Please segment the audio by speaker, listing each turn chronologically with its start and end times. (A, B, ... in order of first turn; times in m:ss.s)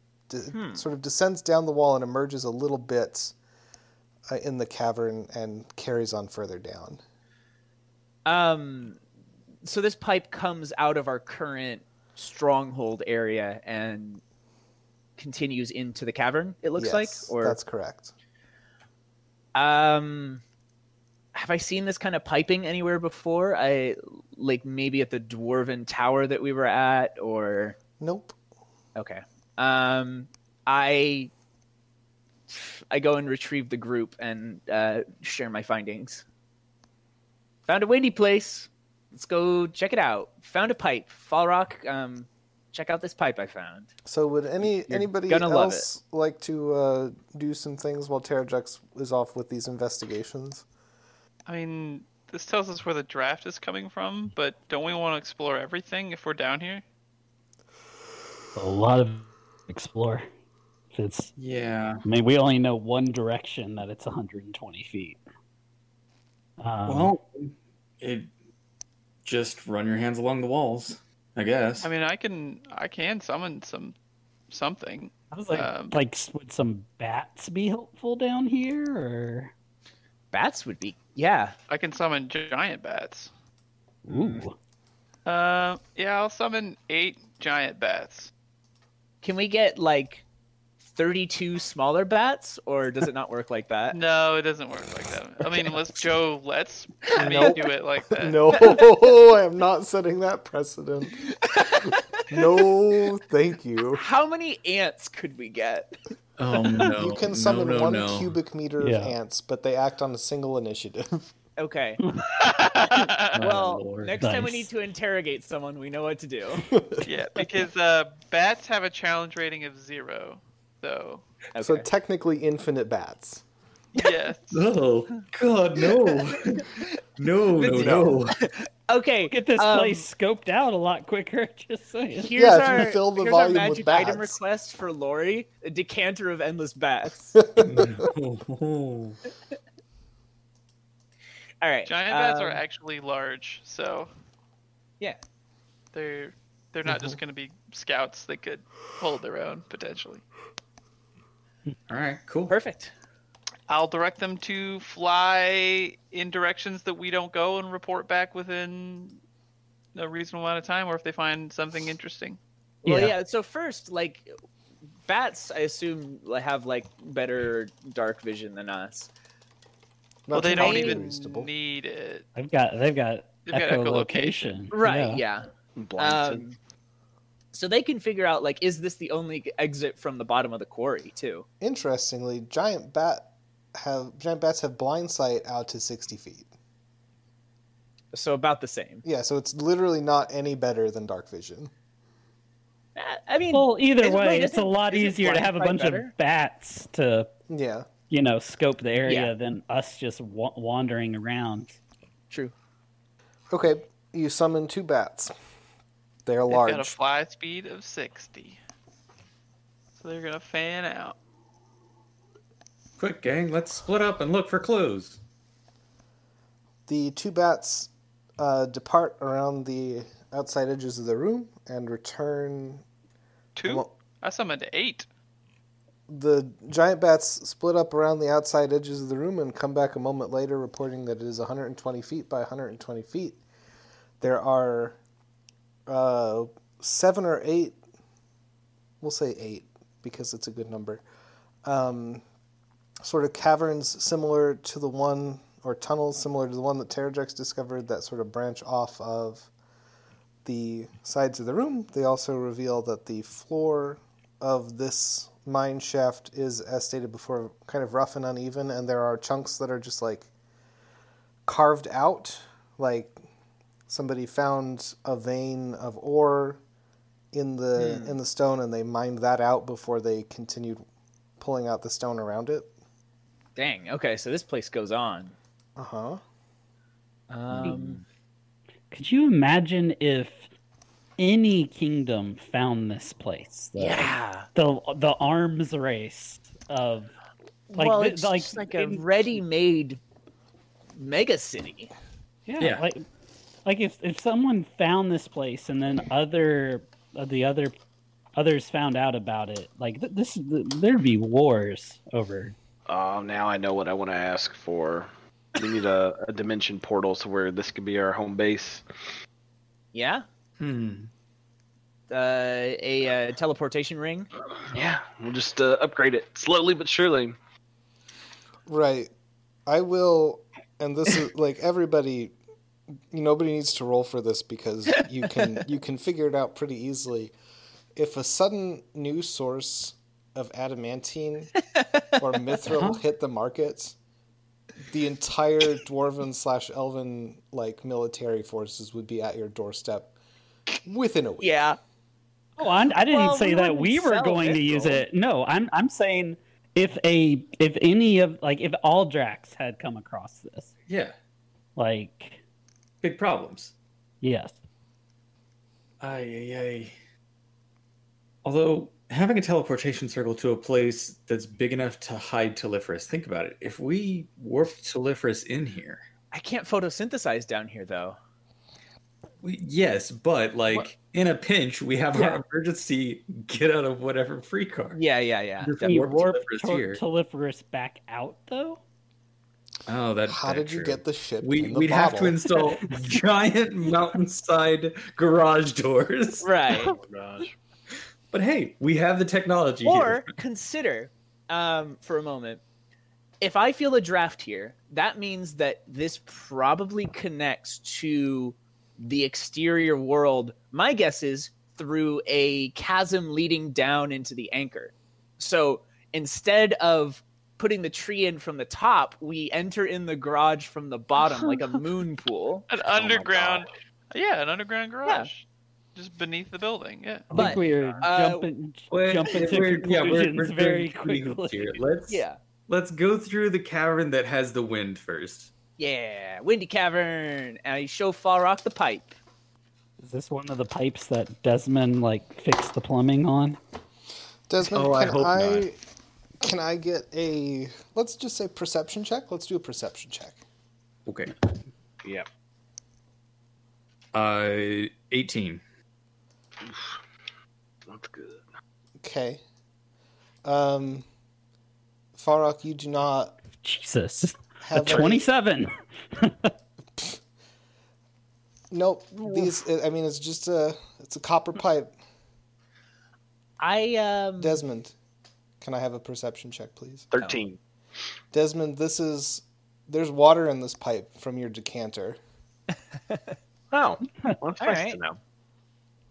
0:00.3-0:03.4 A
0:00.5-0:00.8 B
0:04.3-0:07.0 A
0:08.3-0:09.0 B
0:09.6-0:14.2 B
0:15.2-0:17.6 B
0:16.8-0:18.1 A
0:19.6-0:20.4 B
0:21.3-0:27.8 B
0:28.0-0:28.4 A
0:29.0-0:31.3 B
0:32.5-0:36.2 B
0:37.7-0:43.9 B
0:44.1-0:50.7 A
0:44.6-0:45.9 B
0:51.5-0:56.8 C
0:58.6-1:00.3 D
1:00.9-1:01.3 D
1:01.4-1:02.0 E
1:02.0-1:05.2 D
1:06.6-1:07.2 D
1:06.9-1:08.3 E
1:09.2-1:11.9 E
1:11.8-1:14.0 C
1:14.5-1:16.0 C
1:15.3-1:19.5 D
1:20.3-1:21.6 B
1:21.7-1:23.3 C
1:24.0-1:24.6 D
1:24.1-1:24.4 B
1:25.3-1:28.3 C
1:29.2-1:30.2 B
1:30.8-1:34.0 B
1:33.9-1:38.5 C
1:37.1-1:37.6 B
1:37.2-1:41.2 A
1:41.4-1:42.0 B
1:42.3-1:44.0 A
1:43.9-1:46.0 B
1:46.4-1:48.4 E
1:46.9-1:51.3 A
1:48.8-1:49.2 D
1:51.6-1:52.0 B
1:52.4-1:53.4 C
1:52.8-1:56.6 B
1:53.4-1:54.2 E
1:54.2-1:54.7 D
1:56.7-1:57.1 A
1:57.0-2:01.2 C
2:01.5-2:01.9 B
2:01.6-2:03.4 A
2:04.0-2:04.7 C
2:04.5-2:08.4 E
2:06.1-2:06.8 B
2:07.6-2:10.1 B
2:07.8-2:08.1 A
2:09.3-2:12.4 D
2:12.2-2:17.4 B
2:12.4-2:14.4 A
2:17.4-2:18.0 A
2:17.6-2:19.2 E
2:21.6-2:22.6 B
2:21.9-2:24.1 C
2:25.9-2:30.2 C
2:26.9-2:27.2 A
2:31.9-2:32.5 E
2:32.5-2:32.9 B
2:33.7-2:39.2 C
2:40.0-2:42.4 C
2:42.8-2:44.3 B
2:42.8-2:43.2 D
2:45.1-2:49.1 B
2:50.3-2:51.5 A
2:50.3-2:52.3 C
2:50.5-2:51.0 B
2:52.4-2:55.2 D
2:53.4-2:54.6 C
2:54.7-2:55.5 B
2:55.8-2:56.4 F
2:56.0-2:56.6 B
2:57.5-3:01.5 B
3:01.6-3:06.5 A
3:08.1-3:09.0 B
3:09.0-3:11.7 A
3:13.0-3:16.1 B
3:13.5-3:17.3 D
3:17.5-3:17.9 A
3:18.1-3:21.8 D
3:19.0-3:19.3 B
3:23.5-3:25.3 A
3:26.3-3:27.0 A
3:26.5-3:28.6 C
3:30.0-3:31.2 C
3:33.0-3:35.2 E
3:36.9-3:42.8 A
3:43.6-3:45.1 C
3:43.6-3:43.9 A
3:46.1-3:53.4 A
3:54.2-3:55.0 A
3:55.9-3:57.8 A
3:59.0-4:01.0 A
4:01.6-4:02.2 A
4:03.0-4:09.5 A
4:10.4-4:20.3 A
4:21.5-4:23.2 A
4:23.9-4:26.6 A
4:27.3-4:30.8 A
4:27.8-4:28.2 B
4:31.4-4:32.7 A
4:33.6-4:35.4 B
4:35.8-4:36.2 A
4:37.3-4:38.0 B
4:38.9-4:40.5 D
4:41.2-4:47.1 D
4:43.8-4:44.5 B
4:47.7-4:50.0 B
4:47.8-4:49.0 D
4:51.0-4:51.9 B
4:52.5-4:53.0 D
4:52.6-4:52.9 E
4:53.6-4:57.7 D
4:58.4-5:02.6 D
5:02.9-5:08.8 F
5:09.9-5:10.2 B
5:10.6-5:11.1 E
5:12.1-5:14.3 B
5:14.7-5:17.4 F
5:18.7-5:19.1 A
5:19.7-5:22.4 A
5:23.1-5:27.3 A
5:28.0-5:31.5 A
5:31.8-5:32.2 B
5:32.2-5:34.0 A
5:34.9-5:40.2 A
5:40.8-5:41.6 A
5:41.4-5:41.8 B
5:42.6-5:50.7 D
5:42.6-5:45.0 B
5:50.9-5:51.2 E
5:51.8-5:52.4 D
5:53.0-5:53.7 E
5:54.2-5:54.6 D
5:56.0-5:56.9 E
5:58.4-6:06.0 E
6:06.3-6:08.2 B
6:09.4-6:15.0 E
6:14.9-6:16.0 B
6:15.6-6:17.0 E
6:15.8-6:18.8 D
6:19.9-6:26.5 E
6:20.3-6:22.4 A
6:26.4-6:27.0 B
6:26.8-6:27.5 F
6:28.3-6:30.3 E
6:29.8-6:32.6 B
6:33.4-6:52.7 B
6:52.7-6:57.5 C
6:52.9-6:53.6 F
6:57.3-7:01.8 D
6:57.3-6:58.5 B
6:58.9-7:05.5 E
7:02.1-7:02.4 B
7:05.8-7:09.2 B
7:10.0-7:13.6 D
7:14.5-7:15.8 A
7:14.6-7:15.7 E
7:16.4-7:20.4 A
7:21.1-7:21.3 E
7:24.1-7:25.6 E
7:26.6-7:27.0 F
7:27.9-7:28.4 F
7:29.0-7:29.4 A
7:30.4-7:31.1 A
7:32.1-7:33.4 A
7:33.6-7:36.5 D
7:34.6-7:35.3 A
7:38.7-7:41.9 A
7:43.6-7:44.6 B
7:44.4-7:45.0 A
7:45.6-7:47.1 A
7:47.1-7:47.6 F
7:48.3-7:52.2 A
7:53.1-7:53.4 B
7:53.7-7:55.2 F
7:54.6-7:55.0 B